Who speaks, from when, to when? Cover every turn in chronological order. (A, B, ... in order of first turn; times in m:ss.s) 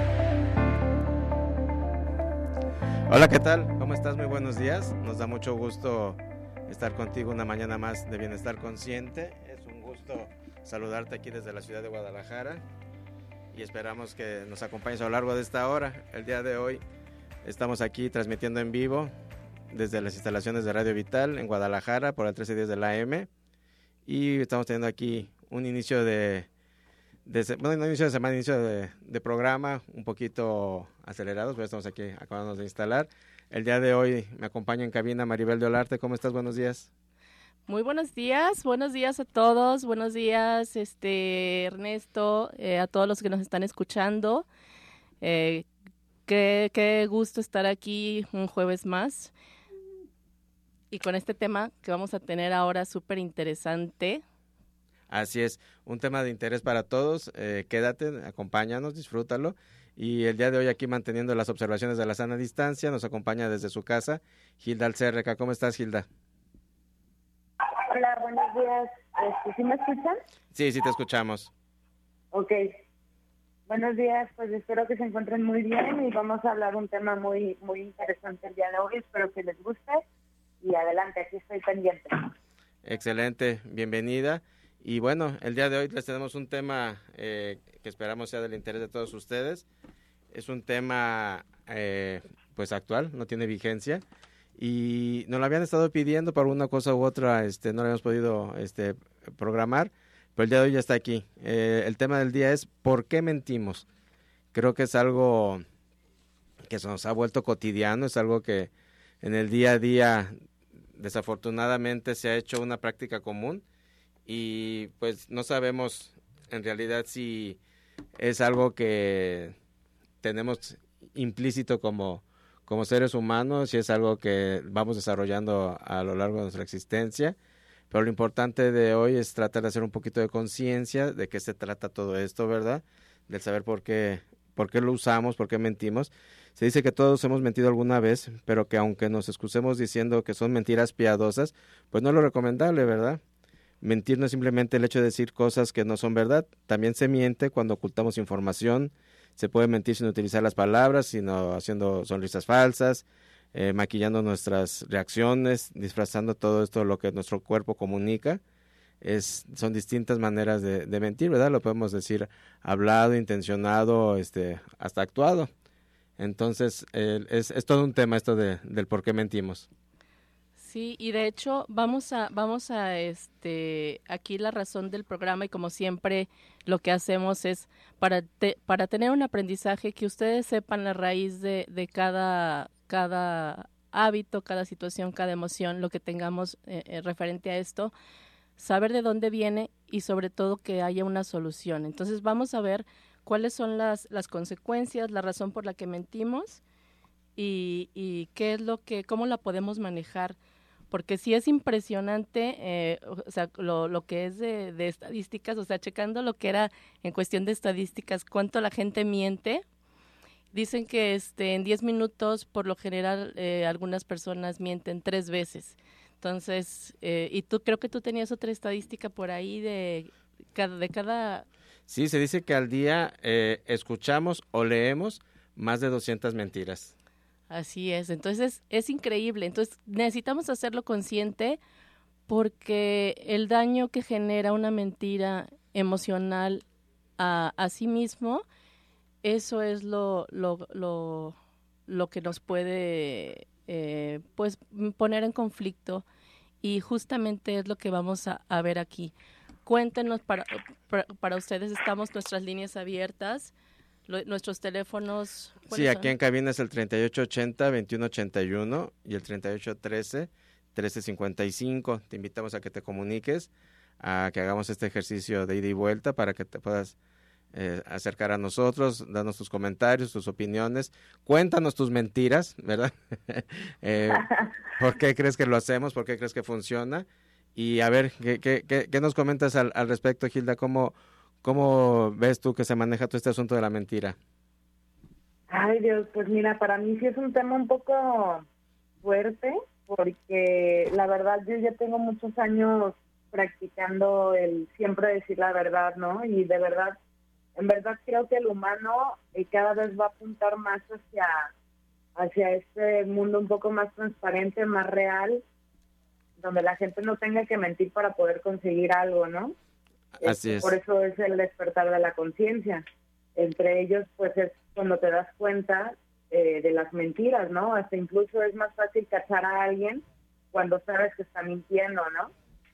0:03.1-0:12.6 A
0:13.5-0:16.8 A
0:17.4-0:19.1 A
0:19.7-0:23.3 A
0:24.0-0:26.5 A
0:27.2-0:36.9 A
0:37.7-0:44.4 B
0:45.2-0:45.7 B
0:46.3-0:49.3 B
0:50.9-0:54.2 B
0:55.1-1:06.1 A
1:07.6-1:10.2 C
1:10.5-1:11.5 A
1:12.3-1:12.8 C
1:13.7-1:20.0 C
1:20.6-1:22.3 C
1:22.8-1:29.6 A
1:30.3-1:34.0 A
1:34.6-1:43.8 A
1:44.5-1:45.6 A
1:46.6-1:48.7 A
1:49.2-1:50.3 A
1:51.0-1:53.6 A
1:54.3-1:57.6 A
1:58.2-1:59.5 A
2:00.2-2:07.4 A
2:07.9-2:23.2 A
2:23.8-2:38.4 A
2:39.0-2:45.5 A
2:46.2-2:49.7 A
2:50.6-3:07.9 B
3:08.6-3:16.6 B
3:17.4-3:20.4 B
3:20.9-3:29.6 B
3:30.5-3:41.4 B
3:41.9-3:46.9 A
3:47.5-3:51.6 B
3:52.3-3:56.6 B
3:57.2-3:58.4 B
3:59.2-4:01.4 B
4:01.9-4:06.0 B
4:06.6-4:09.1 B
4:09.6-4:13.5 B
4:14.1-4:16.1 B
4:15.7-4:23.5 A
4:24.0-4:27.0 A
4:27.5-4:44.2 A
4:45.5-4:48.4 C
4:49.0-4:57.0 C
4:57.6-5:01.5 C
5:02.2-5:05.4 C
5:06.4-5:09.5 C
5:10.2-5:10.8 A
5:10.2-5:12.8 C
5:13.4-5:22.3 C